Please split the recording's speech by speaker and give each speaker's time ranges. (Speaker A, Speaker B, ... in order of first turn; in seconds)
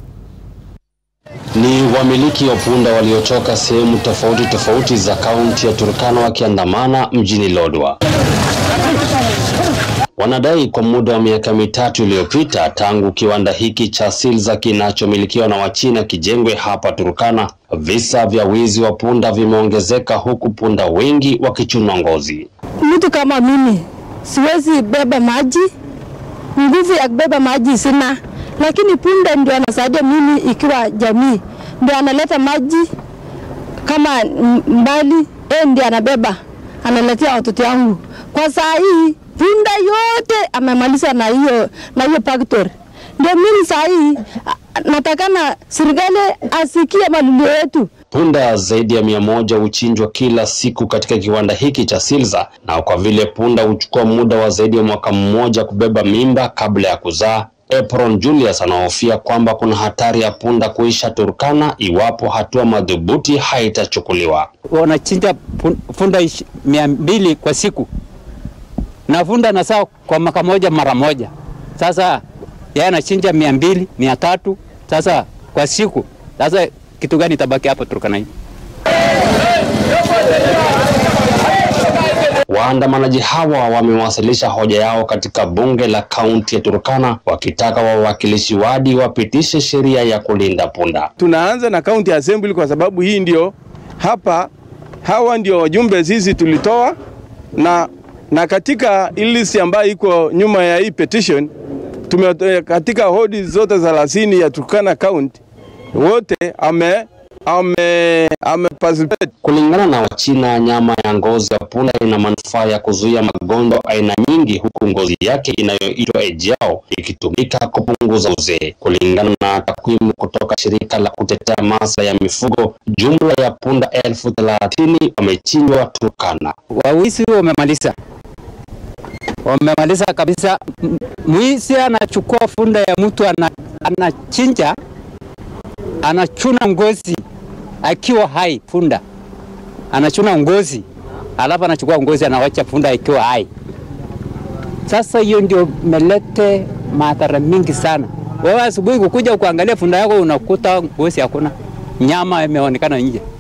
Speaker A: 1.6-8.0, 10.2-22.5, 48.1-64.5, 82.5-91.1, 109.4-126.5
Speaker B: 22.8-25.7, 26.6-32.9, 33.9-47.9
Speaker C: 64.7-67.9, 69.1-72.2, 72.8-78.3, 126.7-128.0, 129.4-134.8, 136.0-137.2, 137.8-139.0, 139.9-140.8, 141.4-143.5, 144.9-153.2
Speaker D: 91.2-94.5, 95.0-97.0, 97.6-101.5, 102.1-105.4, 105.9-109.3